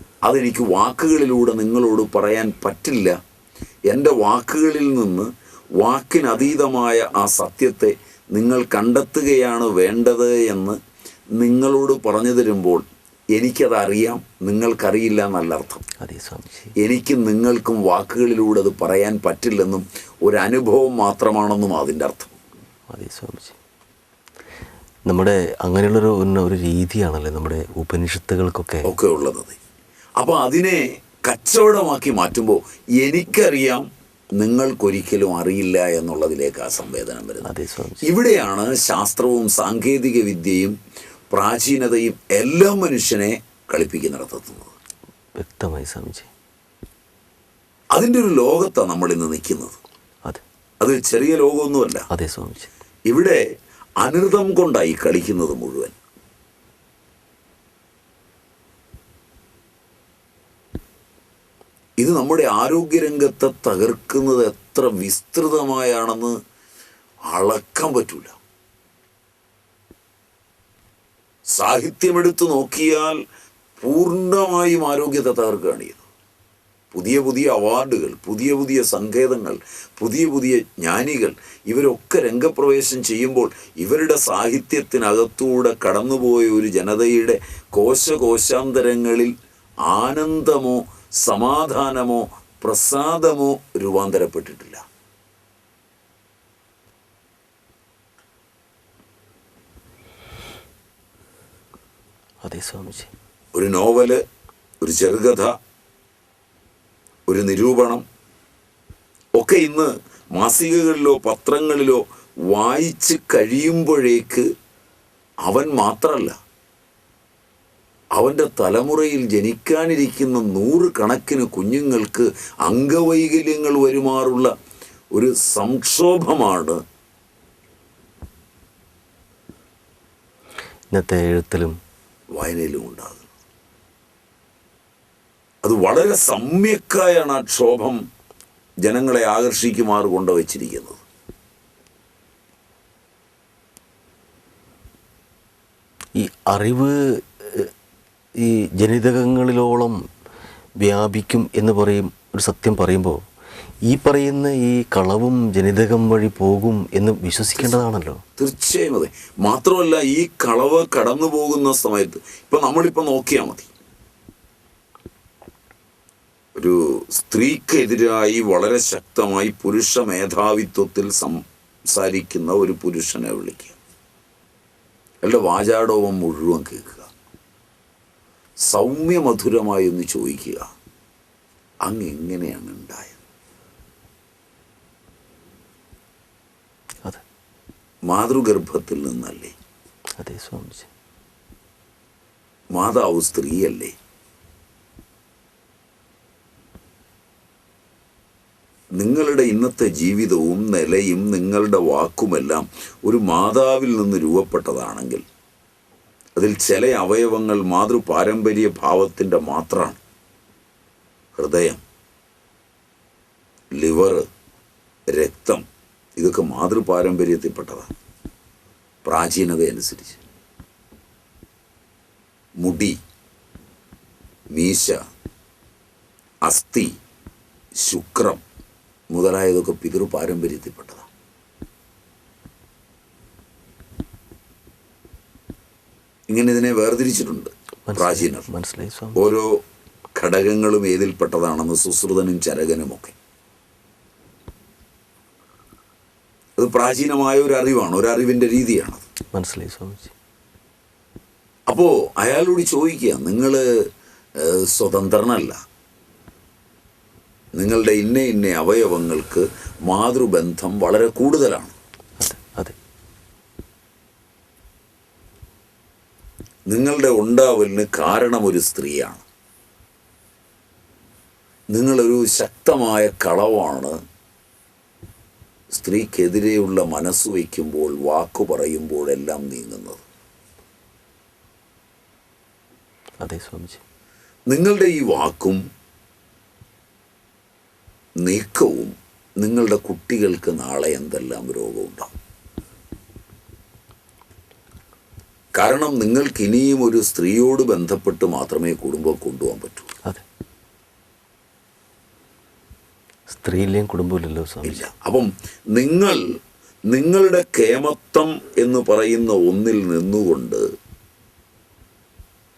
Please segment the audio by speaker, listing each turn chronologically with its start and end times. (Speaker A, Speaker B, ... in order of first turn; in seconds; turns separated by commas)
Speaker A: 0.2-3.1, Speaker A: 3.9-10.8, Speaker A: 11.4-15.8, Speaker B: 16.0-16.7, Speaker A: 16.8-22.3, Speaker B: 22.9-23.6, Speaker B: 25.1-28.9, Speaker A: 28.9-29.6, Speaker A: 30.2-33.9, Speaker A: 34.4-37.5, Speaker B: 37.4-38.1, Speaker A: 38.0-40.8, Speaker A: 41.3-44.8, Speaker B: 45.4-46.3, Speaker A: 47.9-49.8, Speaker A: 50.8-52.1, Speaker B: 52.1-52.7, Speaker A: 53.1-53.4, Speaker A: 54.0-55.9, Speaker A: 62.0-66.3, Speaker A: 67.3-68.4, Speaker A: 71.5-73.2, Speaker A: 73.8-76.0, Speaker A: 76.9-89.3, Speaker A: 89.9-94.8, Speaker B: 102.4-103.1, Speaker A: 103.5-104.2, Speaker A: 104.8-105.5, Speaker A: 107.3-108.0, Speaker A: 109.4-114.5, Speaker A: 115.4-116.4, Speaker A: 118.2-124.5, Speaker A: 125.1-126.8, Speaker B: 130.9-131.8, Speaker A: 132.3-133.3, Speaker A: 135.6-138.0, Speaker A: 138.8-141.0, Speaker B: 146.2-147.7, Speaker B: 148.4-150.0, Speaker B: 150.8-153.2, Speaker B: 153.9-158.2, Speaker A: 158.4-163.7, Speaker A: 166.6-173.8, Speaker A: 175.2-177.1, Speaker A: 178.7-180.7, Speaker A: 181.9-183.2, Speaker A: 188.1-189.5, Speaker B: 190.2-190.9, Speaker A: 192.7-193.9, Speaker A: 199.0-205.2, Speaker A: 206.4-210.0, Speaker A: 211.4-211.8, Speaker A: 213.7-214.3, Speaker A: 215.1-215.6, Speaker A: 216.2-217.9, Speaker A: 219.0-220.2, Speaker A: 222.6-223.0, Speaker A: 224.5-225.0, Speaker A: 226.4-226.9, Speaker A: 227.8-228.4, Speaker A: 229.1-231.1, Speaker A: 236.3-238.5, Speaker B: 237.9-239.2, Speaker A: 239.1-239.6, Speaker A: 240.2-243.2, Speaker A: 246.6-249.1, Speaker B: 249.3-250.1, Speaker A: 251.7-253.7, Speaker A: 254.4-255.6, Speaker A: 257.6-261.8, Speaker B: 262.2-262.8, Speaker A: 266.7-269.2, Speaker A: 271.7-273.9, Speaker A: 275.7-280.1, Speaker B: 283.2-283.8, Speaker A: 284.5-285.6, Speaker A: 288.2-292.1, Speaker A: 295.6-299.9, Speaker B: 303.3-304.9, Speaker A: 304.6-306.2, Speaker A: 306.9-310.6